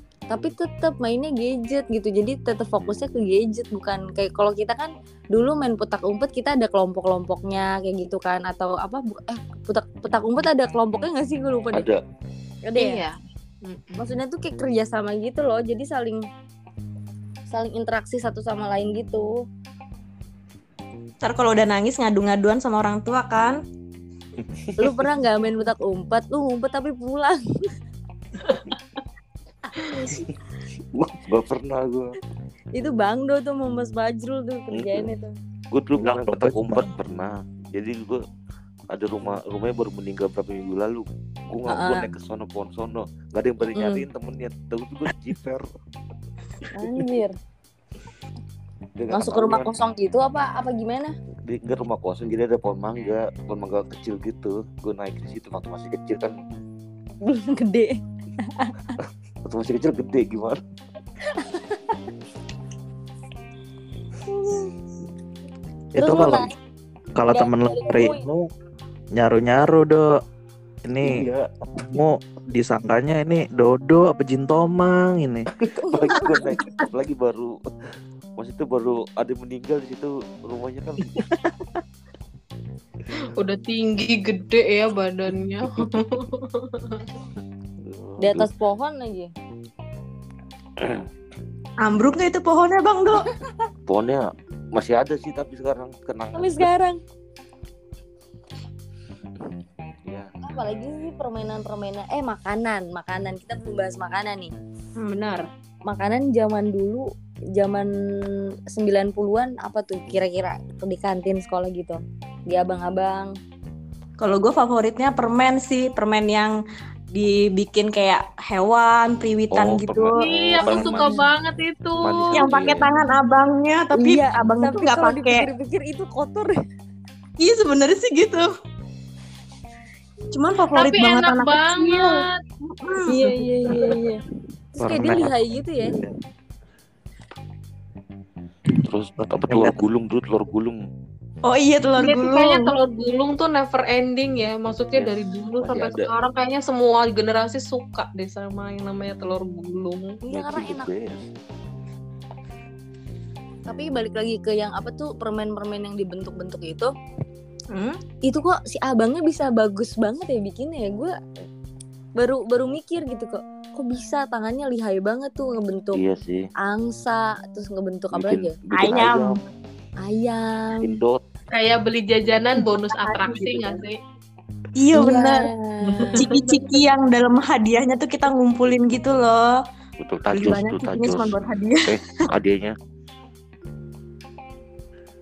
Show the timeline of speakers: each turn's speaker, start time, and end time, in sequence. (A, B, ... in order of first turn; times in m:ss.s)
0:00.3-0:11.9 A
0:11.7-0:12.0 B
0:12.6-0:13.0 A
0:12.8-0:14.2 C
0:14.0-0:16.2 A
0:17.5-0:19.4 A
0:21.2-0:23.6 D
0:24.6-0:24.9 B
0:24.8-0:27.4 A
0:29.8-0:30.2 A
0:30.9-0:32.2 B
0:32.7-0:35.3 A
0:34.7-0:35.1 B
0:35.7-0:38.2 B
0:36.0-0:36.9 E
0:38.9-0:45.7 B
0:41.7-0:42.1 A
0:43.7-0:44.0 A
0:46.7-0:47.3 A
0:49.0-0:49.7 B
0:49.1-0:51.1 A
0:51.4-0:56.4 B
0:57.2-0:59.0 A
0:59.4-1:00.6 B
1:01.3-1:02.0 A
1:04.3-1:04.7 A
1:06.0-1:06.5 E
1:06.0-1:06.5 A
1:07.2-1:08.5 E
1:07.3-1:08.2 A
1:09.1-1:10.1 E
1:10.8-1:11.2 E
1:11.0-1:11.5 B
1:11.8-1:15.5 E
1:15.6-1:17.6 B
1:15.8-1:16.6 A
1:18.4-1:21.2 B
1:21.2-1:21.5 E
1:23.3-1:27.0 C
1:27.8-1:28.5 B
1:28.2-1:29.3 A
1:30.8-1:31.0 B
1:31.8-1:33.3 D
1:33.9-1:36.7 B
1:36.3-1:37.0 A
1:40.0-1:40.3 B
1:40.4-1:44.5 A
1:45.0-1:45.5 D
1:45.9-1:53.3 A
1:54.2-1:56.6 D
1:57.1-2:01.1 D
1:59.5-2:01.2 B
2:00.2-2:02.6 C
2:02.0-2:02.9 B
2:02.3-2:05.5 D
2:03.9-2:06.5 A
2:07.4-2:08.5 D
2:10.3-2:13.4 D
2:10.7-2:12.4 C
2:13.0-2:14.2 A
2:14.8-2:16.0 A
2:14.8-2:15.3 E
2:18.7-2:20.8 B
2:19.5-2:19.8 E
2:21.4-2:22.7 D
2:22.0-2:30.2 C
2:24.9-2:26.1 B
2:30.2-2:30.9 A
2:30.3-2:31.2 B
2:33.7-2:36.9 A
2:37.7-2:38.0 D
2:38.2-2:41.2 A
2:42.2-2:46.0 A
2:45.9-2:46.5 B
2:46.6-2:48.5 A
2:48.1-2:49.4 B
2:48.7-2:49.4 D
2:50.0-2:51.0 A
2:50.8-2:51.2 B
2:51.5-2:54.0 C
2:52.6-2:53.8 D
2:54.8-2:55.5 D
2:54.9-2:56.2 A
2:55.9-2:56.6 C
2:56.1-2:59.5 D
3:00.0-3:02.8 B
3:00.3-3:02.0 D